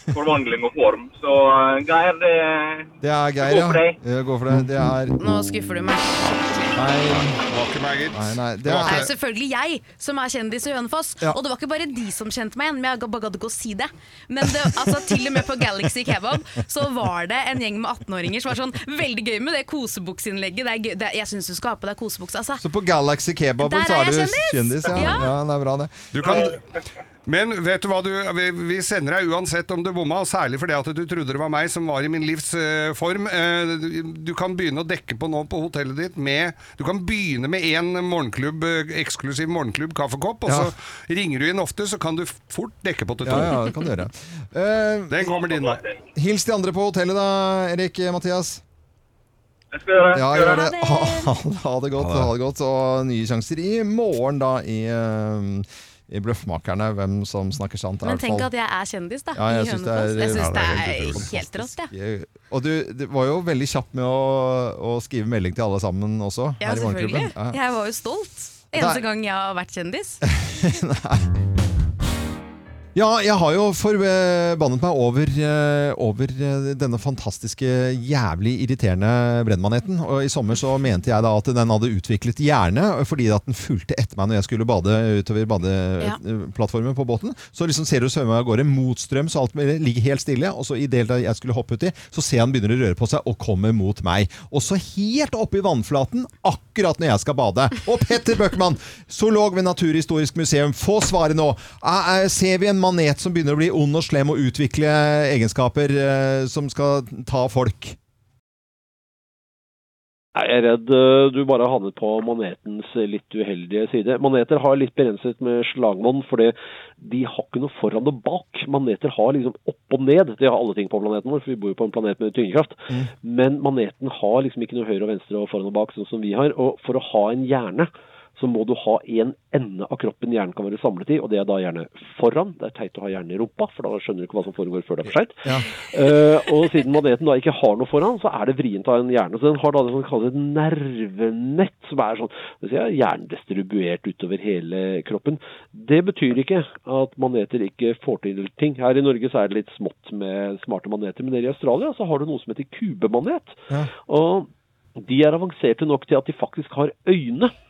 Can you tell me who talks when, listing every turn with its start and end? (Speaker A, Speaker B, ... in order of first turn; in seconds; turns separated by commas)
Speaker A: 0.1-2.9, Speaker B: 3.0-5.2, Speaker A: 3.4-3.9, Speaker C: 5.2-6.7, Speaker B: 6.7-7.4, Speaker D: 7.2-9.1, Speaker B: 8.1-9.1, Speaker C: 8.8-22.6, Speaker B: 22.6-26.1, Speaker C: 23.6-25.3, Speaker D: 26.1-26.6, Speaker D: 27.2-43.6, Speaker B: 40.5-40.7, Speaker B: 43.2-45.2, Speaker D: 45.1-45.8, Speaker A: 45.5-45.9, Speaker B: 46.1-48.6, Speaker A: 49.7-50.6, Speaker B: 50.1-58.5, Speaker C: 50.4-51.3, Speaker D: 52.0-52.3, Speaker C: 58.0-61.9, Speaker B: 59.3-67.6, Speaker D: 60.3-61.3, Speaker C: 66.6-70.2, Speaker B: 68.7-69.0, Speaker B: 70.2-71.3, Speaker B: 72.9-108.0, Speaker E: 110.3-157.5, Speaker B: 135.4-135.7